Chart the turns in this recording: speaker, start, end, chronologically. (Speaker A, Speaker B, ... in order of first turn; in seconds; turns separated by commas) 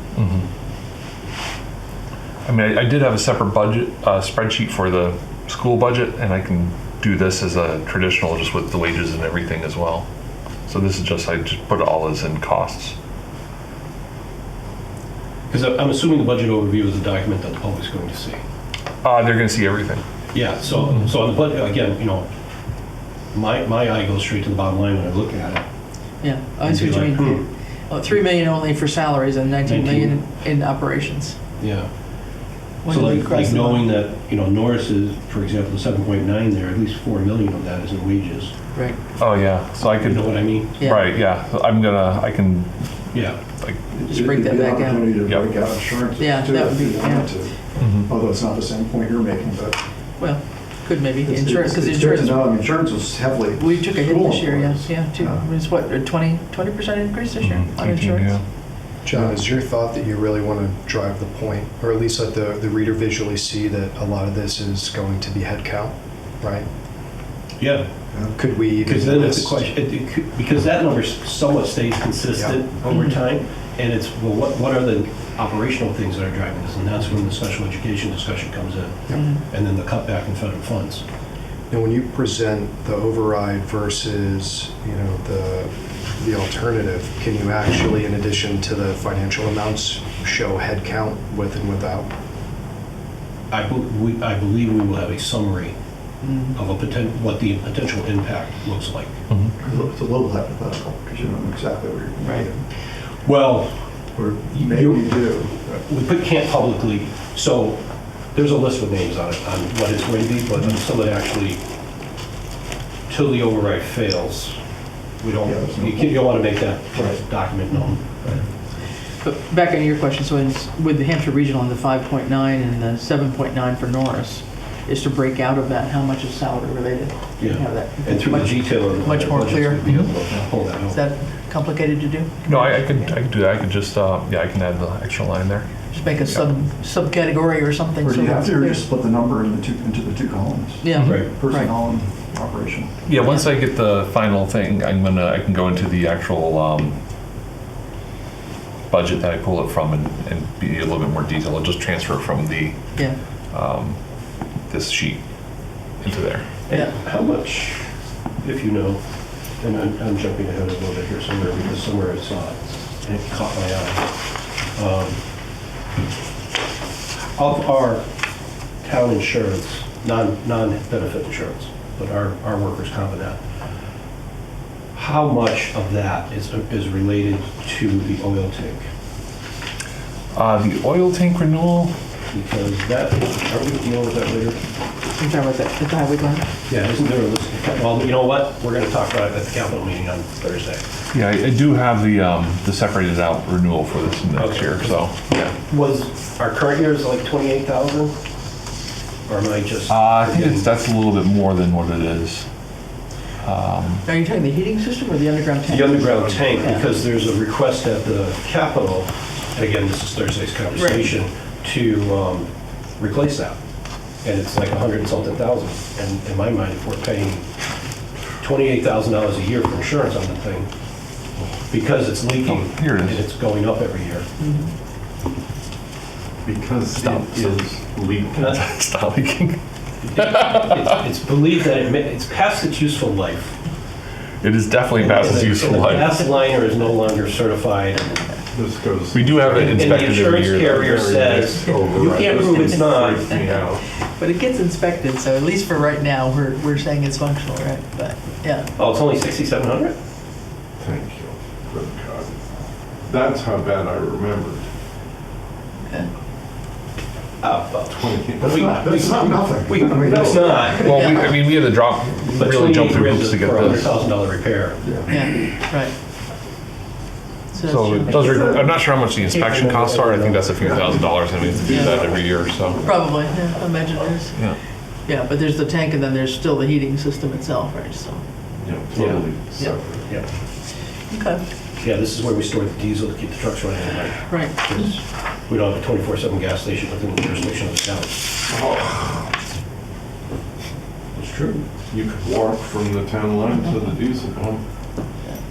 Speaker A: 0.2-0.5, Speaker A: 2.5-10.1, Speaker A: 10.7-13.0, Speaker B: 15.5-18.4, Speaker A: 19.0-20.0, Speaker B: 20.3-22.3, Speaker B: 23.3-25.7, Speaker C: 26.2-31.4, Speaker B: 26.6-27.5, Speaker B: 29.6-30.2, Speaker B: 31.6-31.9, Speaker C: 32.8-33.9, Speaker B: 32.9-38.5, Speaker C: 38.7-39.0, Speaker A: 39.2-43.9, Speaker B: 40.0-40.9, Speaker C: 40.7-41.1, Speaker B: 43.1-43.4, Speaker D: 43.9-49.8, Speaker C: 44.1-45.2, Speaker A: 45.2-45.5, Speaker C: 46.0-47.3, Speaker A: 47.8-48.1, Speaker C: 50.2-52.6, Speaker D: 51.2-55.5, Speaker C: 53.6-58.4, Speaker A: 57.4-58.4, Speaker E: 59.0-66.7, Speaker D: 59.1-59.5, Speaker B: 67.6-67.9, Speaker E: 68.2-69.7, Speaker B: 68.8-81.0, Speaker E: 72.4-72.6, Speaker C: 72.9-73.2, Speaker C: 79.1-79.4, Speaker E: 81.7-92.1, Speaker B: 93.5-95.8, Speaker C: 96.2-96.5, Speaker B: 96.5-99.2, Speaker D: 99.6-102.6, Speaker C: 102.2-102.5, Speaker B: 103.2-103.9, Speaker D: 104.1-105.8, Speaker B: 104.5-111.6, Speaker B: 113.1-114.6, Speaker B: 115.2-118.2, Speaker D: 115.5-116.3, Speaker D: 117.0-117.2, Speaker C: 119.2-129.9, Speaker B: 127.4-131.0, Speaker C: 130.8-133.1, Speaker A: 132.5-135.9, Speaker C: 135.9-138.9, Speaker D: 138.0-142.9, Speaker C: 140.8-141.7, Speaker A: 140.9-141.3, Speaker B: 141.0-141.3, Speaker A: 143.1-147.0, Speaker C: 143.2-143.5, Speaker A: 148.9-152.8, Speaker A: 153.5-154.0, Speaker A: 154.7-155.2, Speaker A: 156.0-156.5, Speaker B: 156.7-157.8, Speaker B: 158.4-159.0, Speaker B: 159.6-164.1, Speaker B: 164.8-165.2, Speaker B: 167.4-168.1, Speaker B: 168.8-173.4, Speaker B: 174.9-178.9, Speaker A: 180.3-181.9, Speaker B: 182.3-184.6, Speaker C: 185.2-186.5, Speaker B: 186.7-190.8, Speaker A: 191.1-195.5, Speaker B: 194.4-198.2, Speaker B: 199.3-200.7, Speaker A: 199.9-202.5, Speaker A: 203.4-204.0, Speaker C: 204.1-206.9, Speaker B: 205.7-213.6, Speaker C: 210.8-211.1, Speaker B: 214.2-217.5, Speaker B: 218.4-220.7, Speaker B: 221.7-224.3, Speaker A: 222.4-223.2, Speaker C: 224.4-224.7, Speaker F: 226.4-228.4, Speaker A: 226.9-229.6, Speaker B: 230.0-233.6, Speaker A: 230.1-231.0, Speaker A: 234.4-236.2, Speaker B: 234.9-238.2, Speaker F: 238.5-243.8, Speaker A: 239.1-242.0, Speaker B: 239.5-243.2, Speaker C: 243.3-243.7, Speaker C: 244.2-248.7, Speaker B: 248.8-250.0, Speaker F: 250.8-252.4, Speaker F: 253.1-254.7, Speaker B: 257.4-261.3, Speaker F: 257.8-258.9, Speaker D: 258.4-261.1, Speaker A: 260.9-263.9, Speaker B: 262.4-264.8, Speaker D: 264.8-265.2, Speaker C: 265.1-265.9, Speaker C: 267.5-268.7, Speaker A: 267.6-272.8, Speaker B: 269.2-271.1, Speaker F: 271.4-273.1, Speaker C: 271.7-272.0, Speaker C: 272.8-274.4, Speaker C: 275.1-278.2, Speaker F: 278.6-280.2, Speaker B: 278.9-279.2, Speaker C: 281.1-281.4, Speaker B: 281.8-288.2, Speaker C: 284.3-284.8, Speaker F: 288.5-289.3, Speaker B: 291.1-291.6, Speaker F: 291.9-294.6